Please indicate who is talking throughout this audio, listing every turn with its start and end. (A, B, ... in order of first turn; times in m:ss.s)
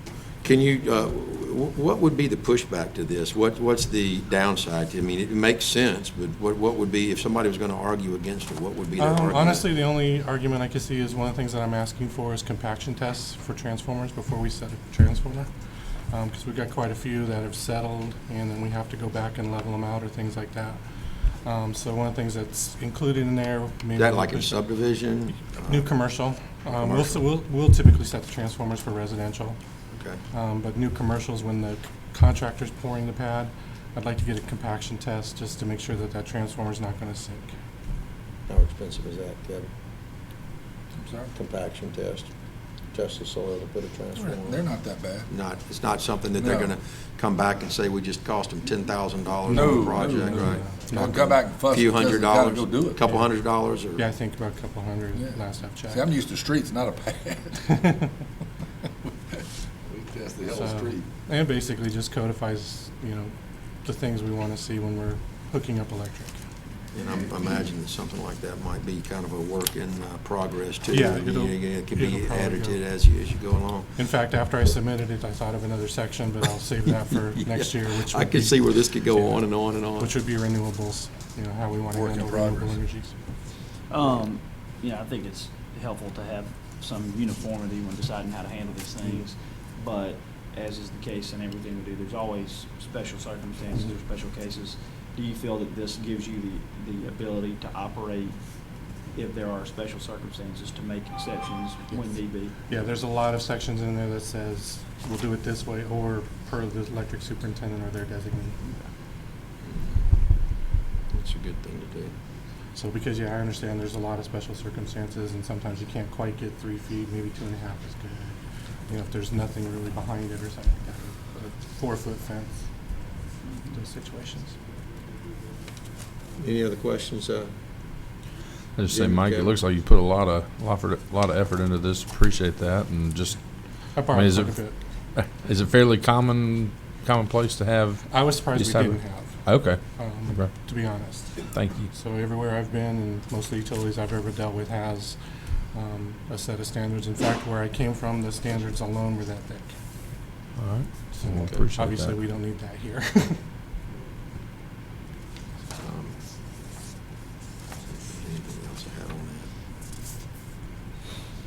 0:00.4-0:09.6 A
0:09.0-0:15.5 B
0:16.1-0:20.8 B
0:21.4-0:24.6 B
0:24.0-0:25.9 A
0:25.6-0:29.6 B
0:26.7-0:27.2 A
0:29.9-0:30.2 A
0:30.3-0:37.5 B
0:38.5-0:39.7 A
0:41.0-0:41.3 C
0:41.4-0:42.3 A
0:42.9-0:44.7 A
0:44.2-0:45.3 C
0:45.3-0:54.0 A
0:46.4-0:46.8 C
0:49.5-0:53.1 C
0:49.5-0:51.3 B
0:54.0-0:56.0 B
0:55.2-0:57.8 C
0:57.7-0:58.1 B
0:59.1-1:01.0 C
1:00.5-1:03.3 B
1:03.8-1:06.4 B
1:06.9-1:13.9 A
1:10.9-1:12.8 B
1:14.0-1:23.1 B
1:17.5-1:20.1 A
1:21.9-1:22.8 C
1:23.9-1:38.4 D
1:39.1-1:42.8 D
1:42.7-1:48.7 B
1:49.6-1:50.1 A
1:51.1-1:52.1 A
1:52.8-1:58.4 B
1:58.9-2:02.6 B
2:03.7-2:04.6 B
2:06.4-2:07.5 A
2:08.8-2:13.4 E
2:08.9-2:09.6 A
2:14.0-2:14.8 B
2:14.0-2:20.5 E
2:18.1-2:25.2 B
2:21.5-2:21.9 E
2:25.7-2:29.7 B
2:30.6-2:32.2 E
2:31.1-2:33.4 B
2:35.8-2:36.2 A
2:37.9-2:39.5 A